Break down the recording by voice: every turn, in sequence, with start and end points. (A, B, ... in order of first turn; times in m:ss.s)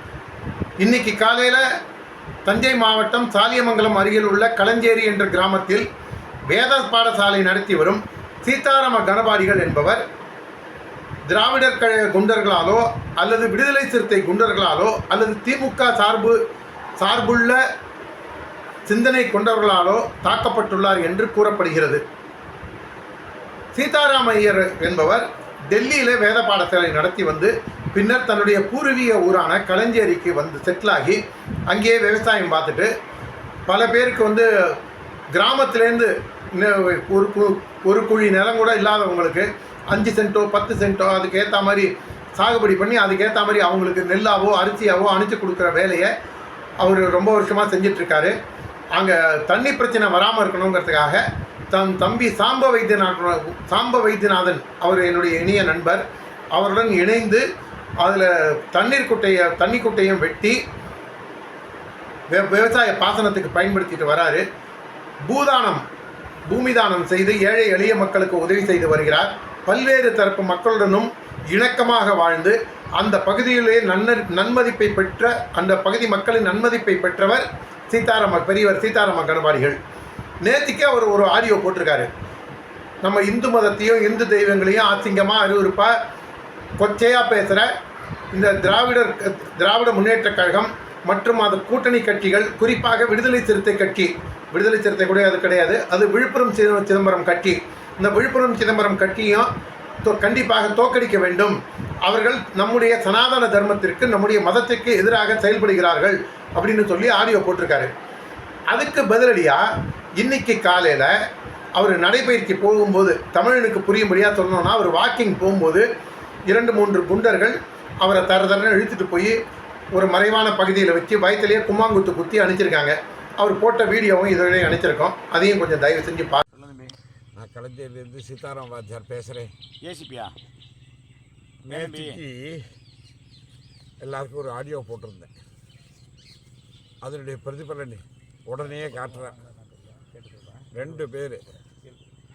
0:00.8-0:01.6 A
0:02.5-0:05.8 A
0:06.5-0:10.0 A
0:11.3-0:16.4 A
0:17.0-0:17.6 A
0:18.9-0:22.0 A
0:23.8-0:32.9 A
0:33.7-0:34.5 A
0:35.3-0:46.1 A
0:46.8-0:48.3 A
0:48.9-0:56.0 A
0:56.5-0:57.4 A
0:58.0-1:00.6 A
1:02.3-1:04.4 A
1:05.3-1:05.8 A
1:06.5-1:19.8 A
1:20.4-1:22.1 A
1:23.0-1:25.9 A
1:26.8-1:27.7 A
1:28.3-1:39.5 A
1:40.0-1:47.9 A
1:48.7-1:49.6 A
1:50.2-1:51.1 A
1:51.8-1:55.8 A
1:56.5-1:59.3 A
1:59.9-2:06.4 A
2:06.5-2:07.0 B
2:07.4-2:09.5 C
2:09.8-2:10.3 B
2:11.6-2:12.7 C
2:11.7-2:12.2 B
2:14.0-2:15.3 C
2:17.0-2:19.4 C
2:20.0-2:20.7 B
2:20.7-2:21.5 C